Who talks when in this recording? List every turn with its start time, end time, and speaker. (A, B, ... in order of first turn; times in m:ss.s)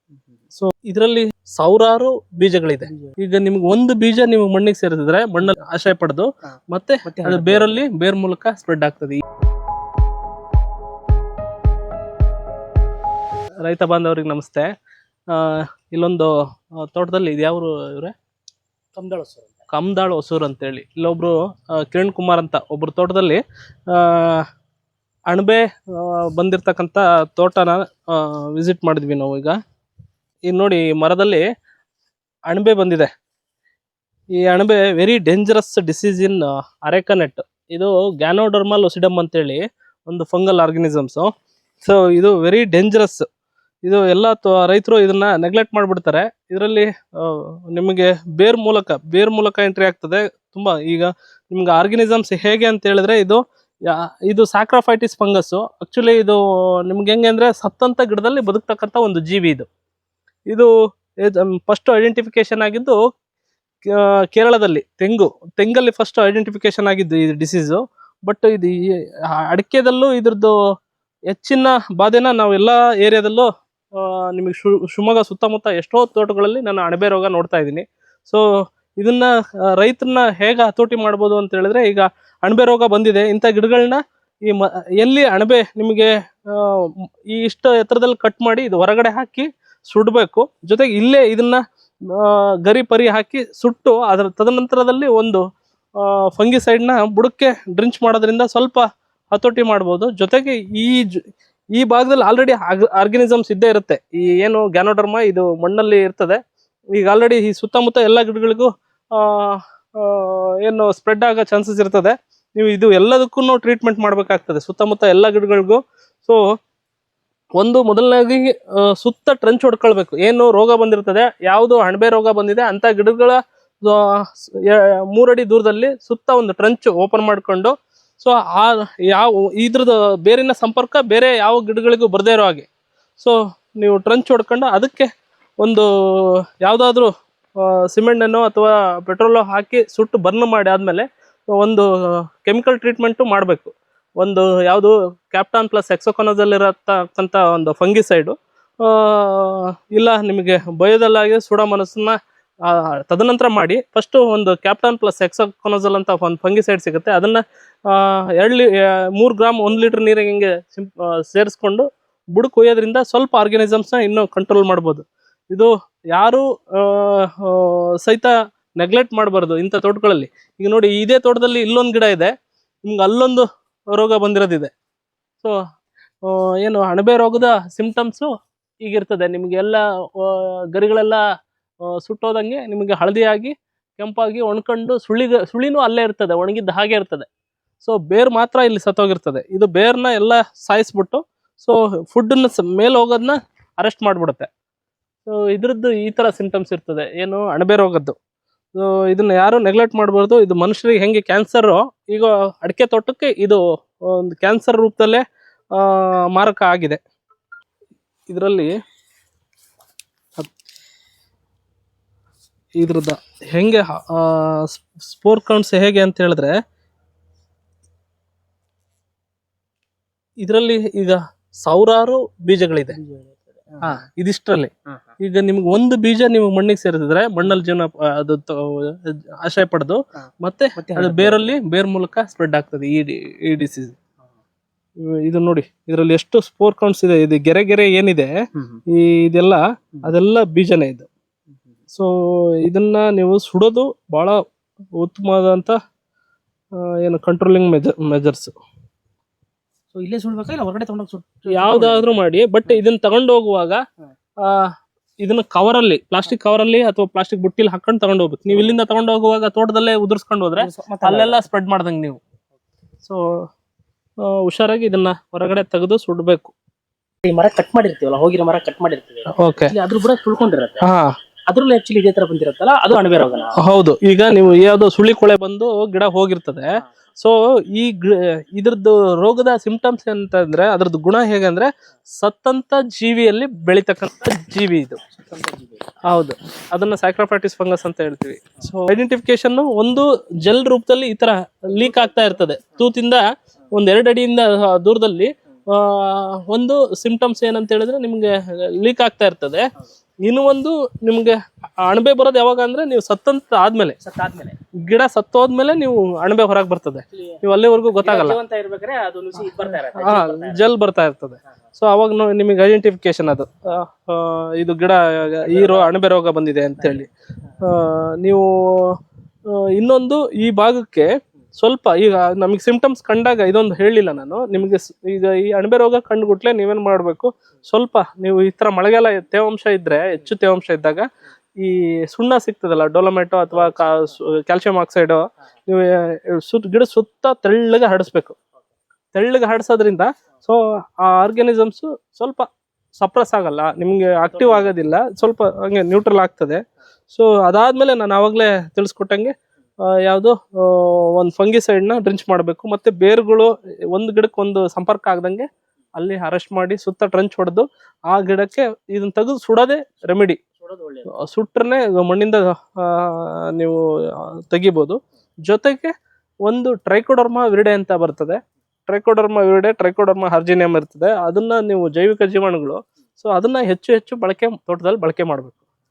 0:00.6-0:09.2 A
0:02.9-0:03.2 B
0:07.0-0:07.8 B
0:13.6-0:14.7 A
0:15.3-0:18.2 A
0:18.9-0:19.6 B
0:19.7-0:24.5 A
0:25.3-0:29.6 A
0:30.5-0:31.4 A
0:32.5-0:33.1 A
0:34.4-0:41.3 A
0:41.8-0:43.3 A
0:43.8-0:59.7 A
1:01.2-1:03.0 A
1:03.9-1:08.8 A
1:09.3-1:10.6 A
1:11.3-1:18.4 A
1:19.0-1:35.4 A
1:36.0-1:41.2 A
1:41.7-1:46.4 A
1:46.9-1:56.4 A
1:57.6-2:12.7 A
2:13.2-2:15.1 A
2:15.6-2:17.1 A
2:17.6-2:52.3 A
2:52.8-2:54.7 A
2:56.2-2:58.3 A
2:58.8-3:01.2 A
3:01.9-3:07.3 A
3:07.8-3:14.5 A
3:15.3-3:18.2 A
3:18.8-3:25.2 A
3:25.8-3:27.0 A
3:28.3-3:28.7 A
3:32.8-3:36.6 A
3:40.4-3:43.0 A
3:42.9-3:44.0 B
3:43.8-3:54.0 A
3:50.8-3:51.5 B
3:55.0-3:58.3 A
3:58.6-3:58.8 B
3:58.9-4:01.1 A
4:01.9-4:04.4 A
4:05.0-4:05.8 A
4:06.8-4:08.5 A
4:09.9-4:12.8 B
4:11.5-4:13.8 A
4:14.4-4:22.2 A
4:20.6-4:21.4 B
4:23.0-4:23.5 A
4:24.2-4:26.5 A
4:27.2-4:30.9 B
4:29.3-4:29.7 A
4:30.8-4:31.1 A
4:31.5-4:33.6 B
4:33.6-4:45.0 A
4:45.1-4:46.0 B
4:46.1-4:59.6 A
4:51.8-4:52.4 B
5:00.2-5:04.0 A
5:04.0-5:04.6 B
5:04.8-5:08.4 A
5:08.0-5:10.7 B
5:09.9-5:17.1 A
5:15.4-5:15.9 B
5:17.6-5:19.0 A
5:19.5-5:31.1 A
5:31.6-5:38.4 A
5:39.1-5:49.3 A
5:44.3-5:44.7 B
5:49.9-6:00.4 A
6:00.6-6:01.1 B
6:01.1-6:05.9 A
6:06.4-6:15.6 A